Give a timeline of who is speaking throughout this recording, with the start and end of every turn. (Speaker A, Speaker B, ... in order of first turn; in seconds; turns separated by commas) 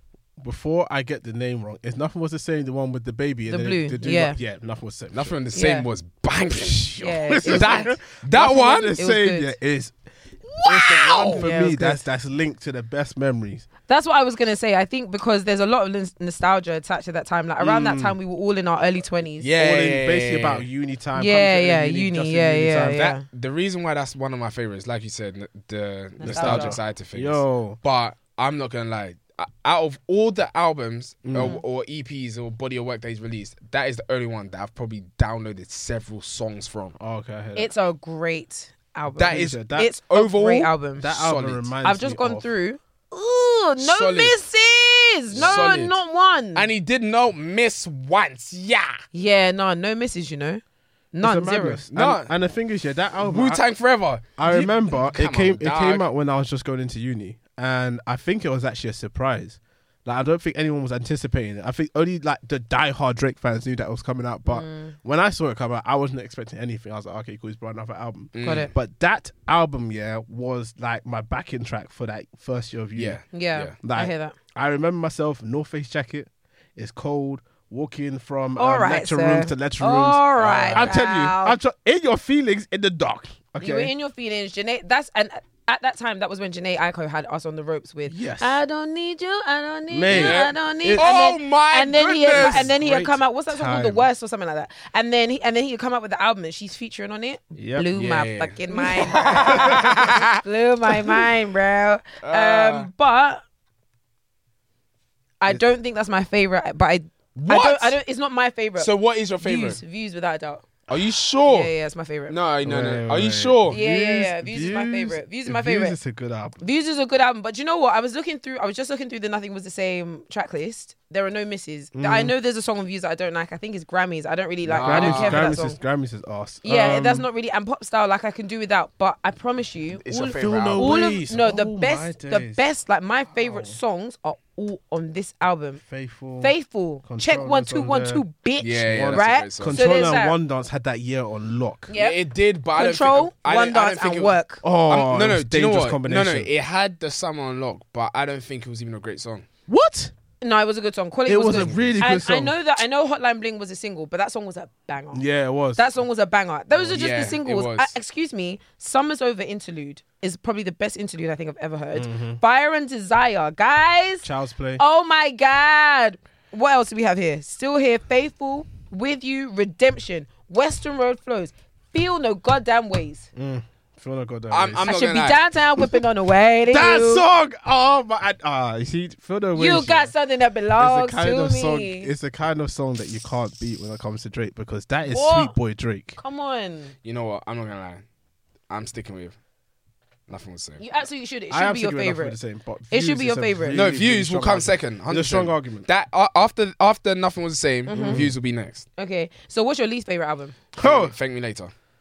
Speaker A: 0.4-5.3, Speaker B: 3.5-4.4, Speaker C: 5.1-8.9, Speaker B: 5.5-5.9, Speaker A: 6.5-9.9, Speaker B: 7.0-7.9, Speaker B: 9.0-9.6, Speaker A: 10.6-13.7, Speaker C: 10.6-11.4, Speaker B: 11.4-12.0, Speaker B: 13.8-19.5, Speaker A: 17.6-18.1, Speaker C: 19.4-20.6, Speaker A: 19.5-23.1, Speaker B: 21.1-23.2, Speaker C: 23.1-37.0, Speaker B: 26.2-26.8, Speaker A: 26.2-27.8, Speaker A: 31.2-31.6, Speaker A: 37.0-37.7, Speaker B: 37.5-41.1, Speaker C: 39.2-41.7, Speaker A: 39.2-39.9, Speaker A: 41.0-42.5, Speaker B: 41.8-46.7, Speaker C: 43.8-44.4, Speaker C: 45.3-46.0, Speaker C: 46.5-49.0, Speaker B: 49.1-50.6, Speaker B: 51.1-51.8, Speaker A: 51.2-53.6, Speaker C: 51.9-52.3, Speaker C: 53.2-56.1, Speaker A: 54.4-73.2, Speaker B: 64.4-65.0, Speaker C: 68.3-68.7, Speaker B: 68.4-68.7, Speaker C: 72.9-73.7, Speaker B: 73.3-74.3, Speaker A: 73.8-83.9, Speaker B: 78.6-81.6, Speaker C: 80.4-80.9, Speaker B: 83.6-103.4, Speaker A: 88.1-88.6, Speaker A: 89.9-91.2, Speaker C: 90.1-92.7, Speaker A: 92.0-94.0, Speaker A: 97.5-97.9, Speaker C: 97.9-100.4, Speaker A: 99.3-100.0, Speaker C: 102.2-102.9, Speaker B: 105.4-110.7, Speaker C: 107.3-108.0, Speaker C: 108.8-109.8, Speaker C: 110.9-111.7, Speaker B: 111.4-112.4, Speaker C: 112.3-113.8, Speaker A: 112.6-116.6, Speaker B: 113.7-116.0, Speaker B: 116.6-125.8, Speaker A: 121.9-122.3, Speaker A: 124.7-127.3, Speaker C: 124.7-125.5, Speaker B: 126.6-135.8, Speaker C: 130.0-131.1, Speaker A: 130.3-132.6, Speaker A: 133.3-133.8, Speaker A: 135.8-138.2, Speaker B: 136.4-140.4, Speaker C: 138.6-140.2, Speaker A: 138.9-141.9, Speaker B: 141.9-142.2, Speaker C: 141.9-149.5, Speaker B: 142.7-144.6, Speaker A: 144.6-146.5, Speaker A: 149.7-150.1, Speaker B: 150.4-173.3, Speaker A: 151.3-152.6, Speaker C: 151.5-152.0, Speaker A: 155.1-155.9, Speaker C: 156.9-157.9, Speaker A: 161.9-162.4, Speaker A: 164.2-164.8, Speaker A: 173.3-174.9, Speaker C: 174.5-175.4, Speaker B: 174.9-177.2, Speaker A: 176.7-180.1, Speaker B: 179.5-182.1, Speaker A: 180.8-186.2, Speaker B: 185.1-185.5, Speaker B: 186.2-186.9, Speaker C: 187.0-188.0, Speaker C: 188.7-189.3, Speaker C: 190.3-190.8, Speaker B: 190.8-192.4, Speaker A: 191.5-195.9, Speaker B: 192.9-193.8, Speaker C: 193.7-198.8, Speaker B: 197.9-198.3, Speaker A: 197.9-198.3, Speaker B: 199.0-200.6, Speaker C: 200.7-201.7, Speaker A: 200.8-201.1